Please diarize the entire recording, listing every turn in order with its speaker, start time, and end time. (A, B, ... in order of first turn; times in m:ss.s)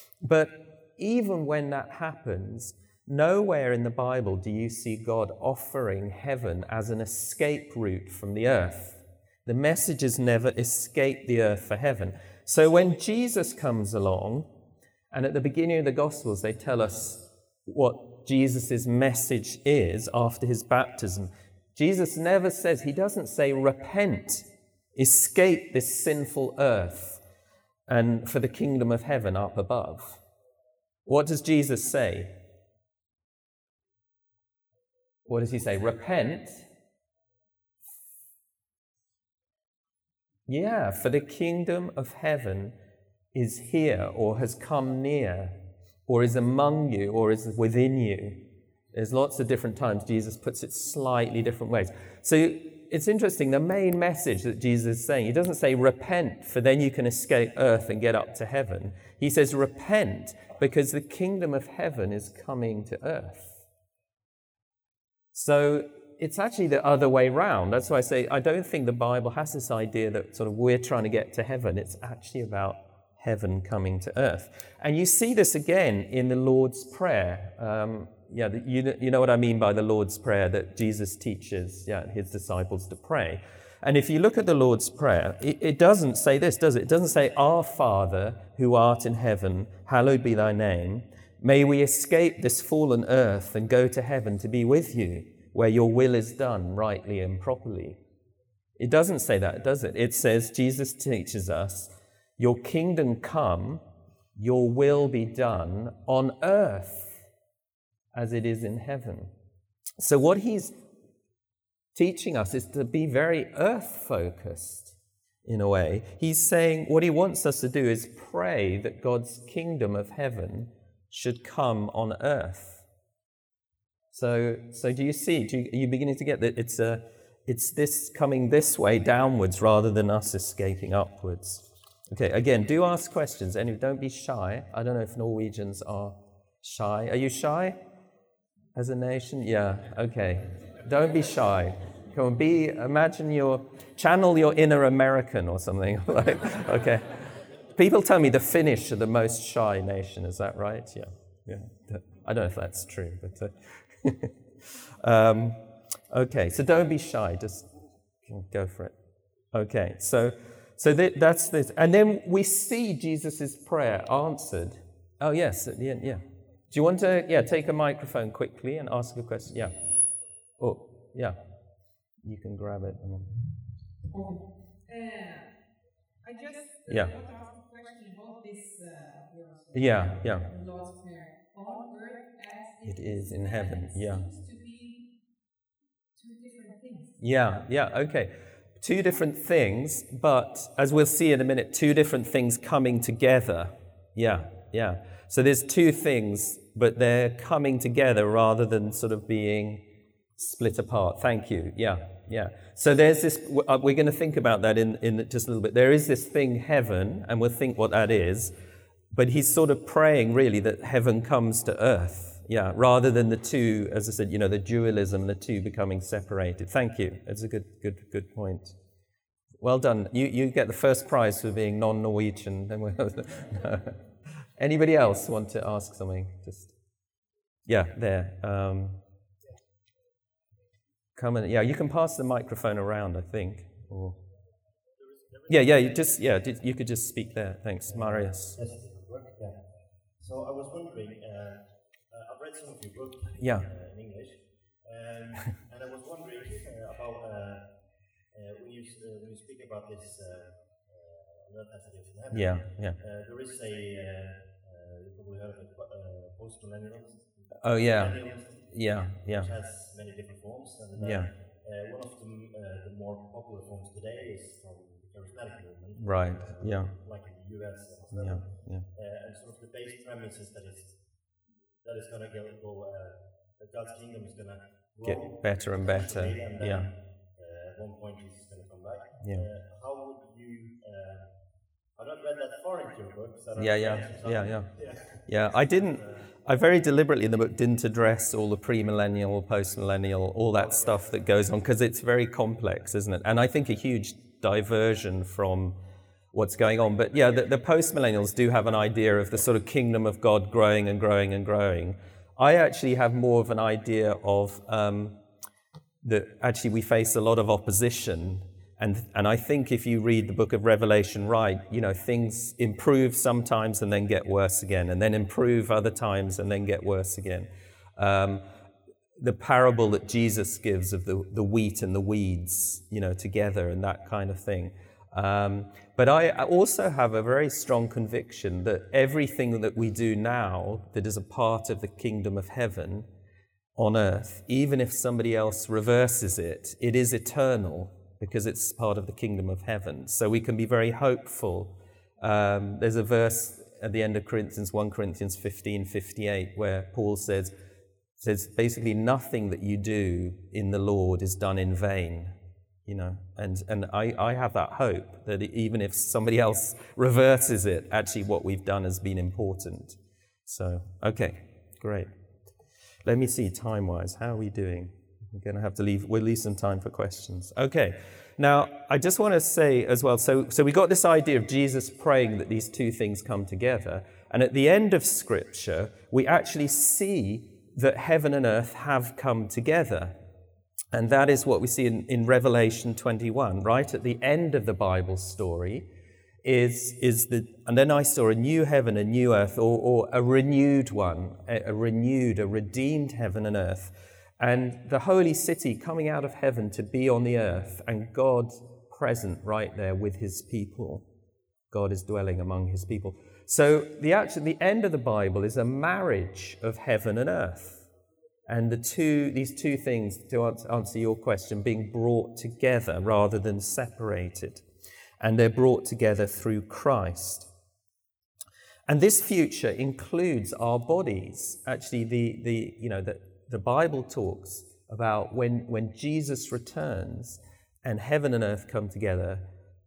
0:00.2-0:14.5 A
0:15.1-0:27.2 A
0:27.9-0:30.2 A
0:31.0-0:32.3 A
0:35.3-0:36.6 A
0:40.5-0:42.8 A
0:43.3-1:03.6 A
1:05.3-1:38.0 A
1:38.8-1:43.8 A
1:44.4-1:47.2 A
1:48.1-1:49.3 A
1:50.0-1:50.7 A
1:51.9-2:02.8 A
2:04.1-2:17.8 A
2:18.7-2:34.3 A
2:35.0-2:35.6 A
2:36.1-2:37.7 A
2:38.2-2:38.9 A
2:39.5-2:49.7 A
2:50.6-2:51.4 A
2:52.2-2:53.3 A
2:54.1-2:55.6 B
2:56.2-3:05.1 B
2:56.9-2:57.1 A
2:59.7-3:00.5 A
3:02.8-3:04.3 A
3:06.1-3:07.2 B
3:07.2-3:19.8 A
3:20.4-3:28.5 A
3:29.1-3:38.7 A
3:39.6-3:44.0 A
3:44.6-3:46.7 A
3:47.7-3:49.0 A
3:51.2-3:54.2 A
3:55.0-3:56.7 C
3:55.5-3:58.6 A
3:57.9-3:59.6 C
4:00.2-4:07.6 C
4:03.4-4:03.7 A
4:08.3-4:31.0 C
4:12.3-4:13.0 A
4:17.6-4:19.5 A
4:21.0-4:21.3 A
4:26.0-4:26.9 A
4:28.1-4:28.8 A
4:31.8-4:41.3 C
4:35.0-4:36.9 A
4:39.2-4:39.5 A
4:42.0-4:46.3 C
4:43.6-4:44.7 A
4:45.2-4:55.8 A
4:50.6-4:51.0 C
4:56.3-5:05.2 A
5:06.0-5:18.4 A
5:19.2-5:33.1 A
5:33.8-5:47.5 A
5:48.2-5:52.3 A
5:52.8-6:02.1 A
6:03.0-6:20.2 A
6:20.9-6:25.9 A
6:26.4-6:41.1 A
6:41.7-6:47.8 A
6:48.5-6:54.6 A
6:55.2-6:57.5 A
6:58.9-7:09.4 A